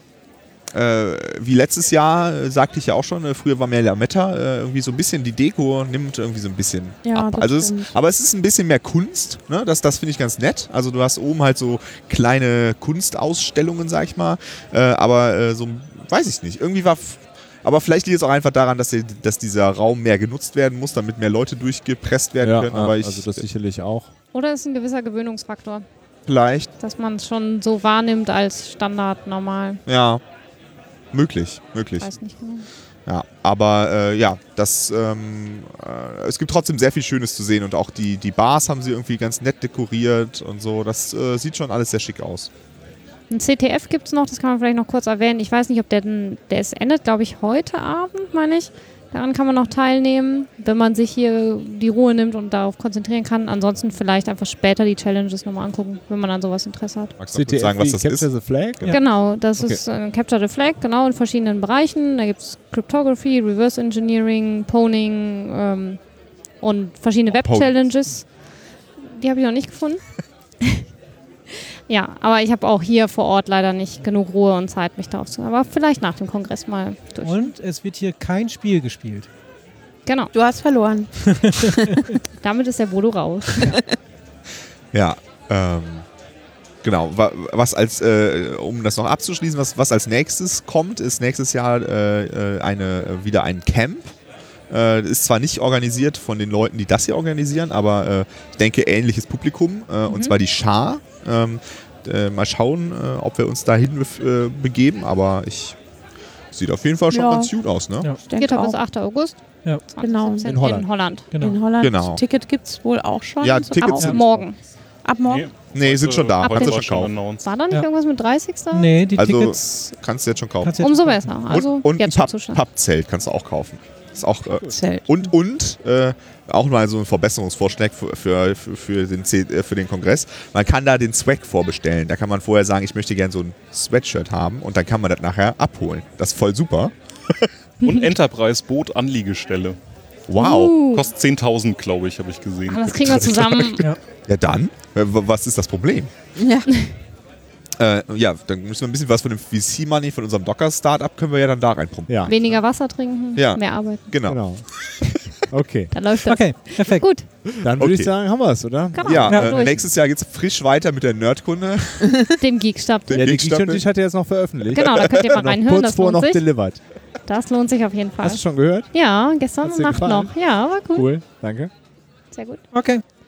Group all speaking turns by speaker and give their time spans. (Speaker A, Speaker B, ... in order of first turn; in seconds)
Speaker A: 0.7-23.4, 26.3-26.7, 29.9-30.2, 31.1-32.1, 33.1-42.5, 57.2-58.4, 67.3-67.9, 84.9-86.1, 86.8-94.1, 94.7-105.8, 106.5-108.1, 111.7-112.2, 113.4-114.5, 115.7-117.1, 119.2-137.5, 140.3-140.8, 144.2-146.1, 147.8-152.8, 153.3-154.4, 157.6-158.1, 159.0-162.1, 163.1-163.9
Speaker B: 7.0-7.9, 80.3-81.9, 107.1-107.5, 108.2-108.8, 110.0-110.5, 111.4-114.2, 115.0-115.5, 124.6-125.3, 146.4-146.7
Speaker C: 22.4-24.1, 57.3-59.8, 110.5-110.9, 154.3-154.7, 155.5-155.9, 157.6-159.9, 163.2-166.8, 168.2-168.9, 169.6-171.7
Speaker D: 24.3-25.8, 26.8-29.8, 32.0-32.7, 43.3-57.1, 58.9-66.1, 66.6-68.4, 69.1-70.0, 71.9-77.5, 80.1-80.3, 82.4-83.7, 100.1-100.3, 108.3-111.3, 113.8-114.6, 116.4-118.9, 120.8-122.6, 140.4-141.1, 142.7-143.8, 152.3-154.3, 155.9-157.3, 158.9-159.8, 162.4-163.2, 164.7-166.5, 167.2-171.1, 172.3-172.6
Speaker E: 77.2-79.3, 111.3-111.7, 118.7-119.9, 120.6-121.6, 156.2-157.4, 159.3-159.6, 172.7-173.0
Speaker F: 115.2-117.5, 137.8-139.8, 140.8-143.9